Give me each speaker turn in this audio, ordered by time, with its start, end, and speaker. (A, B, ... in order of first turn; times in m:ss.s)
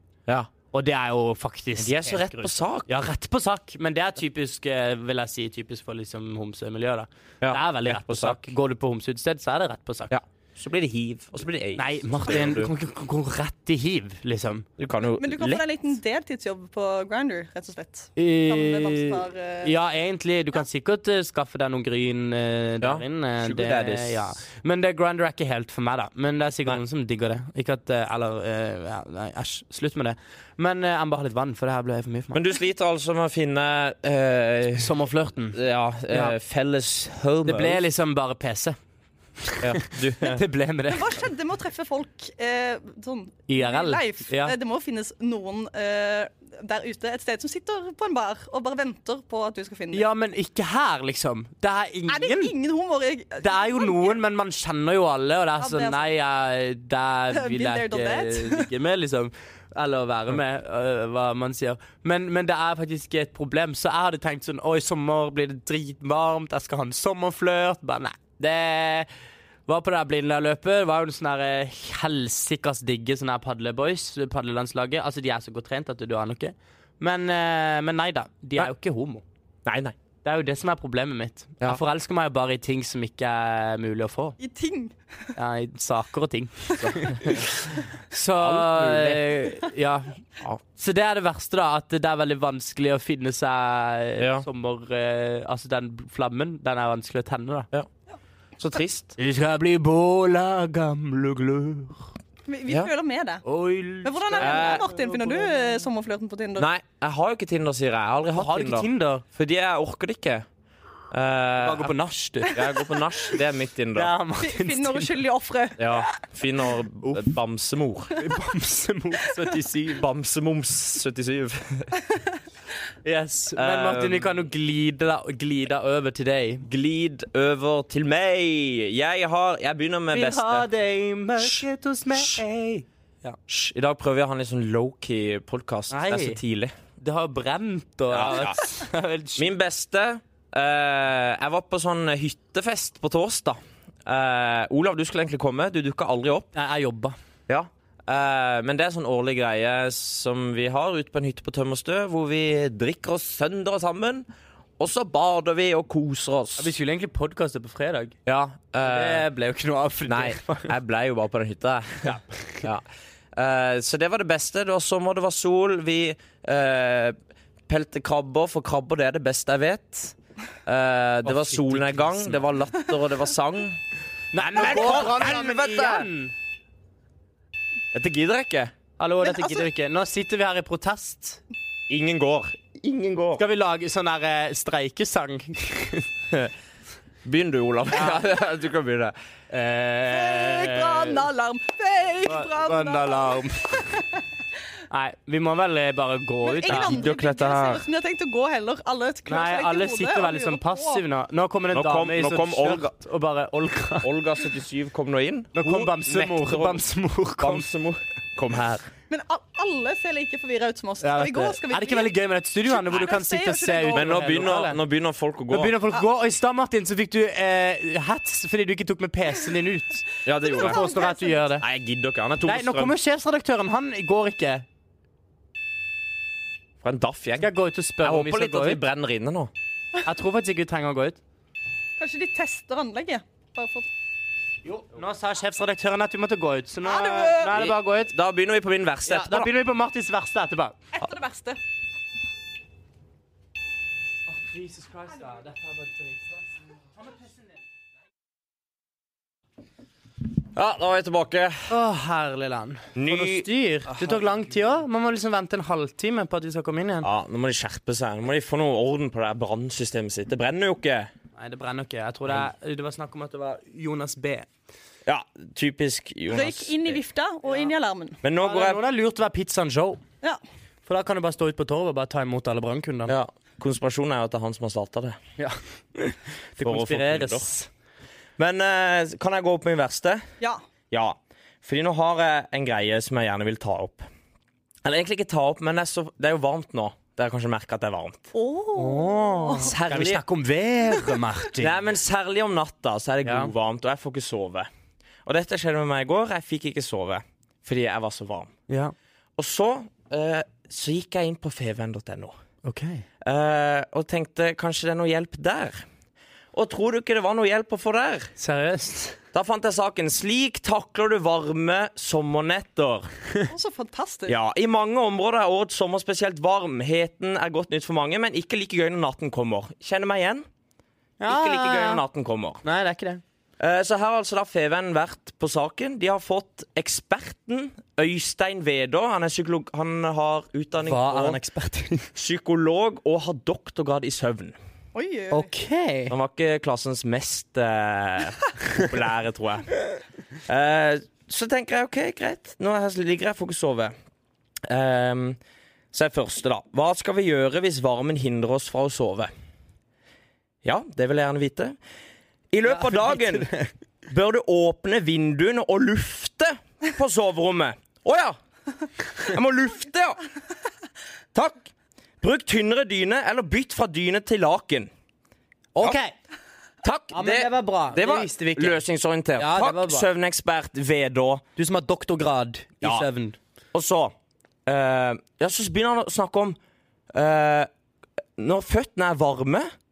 0:00.7-0:10.1 A
0:01.8-0:02.9 B
0:07.4-0:08.5 B
0:10.1-0:12.7 B
0:11.8-0:14.7 A
0:14.8-0:15.6 B
0:15.2-0:19.8 C
0:18.2-0:32.4 A
0:22.8-0:24.3 B
0:32.3-0:34.9 B
0:34.8-0:35.6 A
0:35.5-0:37.8 B
0:36.1-0:36.4 A
0:37.4-0:38.8 A
0:39.4-0:41.2 A
0:39.6-0:40.4 B
0:40.9-0:50.1 C
0:43.5-0:44.6 A
0:49.9-0:52.5 A
0:52.1-0:54.2 C
0:53.4-1:09.1 A
0:55.6-0:56.0 C
0:57.3-0:58.7 C
1:09.7-1:19.2 A
1:19.6-1:20.0 B
1:20.2-1:24.4 A
1:24.4-1:25.0 C
1:25.4-1:30.2 A
1:26.8-1:27.5 B
1:28.4-1:29.6 B
1:30.8-1:37.7 A
1:34.2-1:34.4 B
1:38.6-1:39.1 B
1:39.2-1:42.1 A
1:42.5-1:43.4 C
1:43.4-1:45.9 A
1:44.0-1:46.7 C
1:44.4-1:44.9 B
1:46.6-1:50.5 B
1:48.3-1:49.2 A
1:51.1-1:52.0 B
1:51.6-1:52.6 A
1:52.5-1:54.1 B
1:53.9-1:55.1 A
1:54.4-1:55.8 C
1:55.8-1:58.2 B
1:57.0-1:57.3 A
1:58.2-2:00.0 A
2:00.0-2:02.0 B
2:03.0-2:06.6 A
2:03.6-2:04.4 B
2:06.6-2:10.7 B
2:10.1-2:13.4 A
2:11.4-2:12.4 B
2:13.5-2:16.8 B
2:15.9-2:16.4 A
2:17.0-2:19.5 A
2:18.1-2:18.6 B
2:19.4-2:26.5 B
2:26.5-2:27.2 A
2:27.5-2:34.3 B
2:34.8-2:36.7 B
2:36.6-2:38.2 A
2:38.3-2:39.3 B
2:38.8-2:40.7 A
2:40.1-2:47.2 B
2:42.0-2:42.6 A
2:47.7-2:53.8 B
2:51.3-2:52.4 A
2:54.3-2:56.3 A
2:54.4-2:56.1 B
2:57.9-2:58.7 B
2:59.0-3:01.4 A
2:59.2-2:59.7 C
3:01.9-3:03.4 B
3:03.4-3:06.1 A
3:07.2-3:09.1 B
3:07.9-3:08.2 A
3:09.5-3:11.3 A
3:10.1-3:14.2 C
3:12.2-3:14.0 A
3:14.9-3:17.1 A
3:16.4-3:21.0 C
3:16.7-3:17.8 B
3:19.3-3:24.1 A
3:21.7-3:22.9 B
3:24.0-3:26.8 B
3:25.6-3:27.7 A
3:27.4-3:28.9 B
3:29.1-3:34.2 C
3:31.0-3:34.8 A
3:33.9-3:35.7 B
3:35.5-3:40.1 A
3:40.2-3:40.8 B
3:40.4-3:41.4 C
3:40.6-3:41.6 A
3:41.6-3:43.0 B
3:42.4-3:44.6 A
3:46.8-3:49.5 B
3:47.4-3:48.8 A
3:50.0-3:51.2 A
3:52.0-3:53.9 C
3:54.6-3:58.1 A
3:56.8-3:57.5 C
3:57.5-3:59.5 B
3:59.1-4:00.8 A
4:01.0-4:01.6 C
4:04.3-4:06.5 A
4:10.5-4:11.7 B
4:11.7-4:17.1 A
4:13.0-4:14.2 B
4:17.0-4:21.1 B
4:21.4-4:24.5 A
4:25.1-4:27.0 B
4:26.3-4:28.2 C
4:28.2-4:28.8 B
4:28.4-4:30.0 A
4:30.9-4:33.2 A
4:33.1-4:35.2 B
4:35.4-4:37.7 A
4:36.6-4:37.5 B
4:38.4-4:40.2 B
4:40.9-4:44.1 B
4:44.8-4:48.3 B
4:48.3-4:49.7 C
4:48.8-4:51.7 A
4:49.6-4:50.2 B
4:51.6-4:54.7 B
4:53.2-4:53.5 A
4:55.3-4:58.5 B
4:58.7-4:58.9 A
4:59.4-5:02.4 B
5:02.6-5:03.0 A
5:03.2-5:05.8 B
5:06.5-5:08.3 B
5:08.4-5:09.2 A
5:09.3-5:13.1 B
5:13.5-5:14.4 C
5:14.3-5:20.5 B
5:21.2-5:22.0 A
5:21.3-5:22.6 B
5:22.6-5:23.2 A
5:23.6-5:31.4 B
5:30.8-5:32.1 A
5:32.1-5:34.6 B
5:35.0-5:35.5 C
5:35.3-5:36.1 A
5:36.1-5:39.7 B
5:40.5-5:43.9 B
5:44.7-5:45.4 B
5:45.9-5:49.3 B
5:50.6-5:51.8 B
5:52.5-5:53.5 B
5:52.7-5:53.7 A
5:54.1-5:58.4 B
5:59.2-6:00.2 B
6:01.3-6:01.7 B
6:02.2-6:04.9 B
6:05.8-6:06.1 A
6:06.8-6:11.4 B
6:07.1-6:08.8 A
6:09.4-6:10.1 A
6:11.6-6:13.4 A
6:12.8-6:13.1 B
6:13.7-6:14.1 B
6:14.6-6:16.6 B
6:17.1-6:17.7 B
6:18.4-6:19.7 B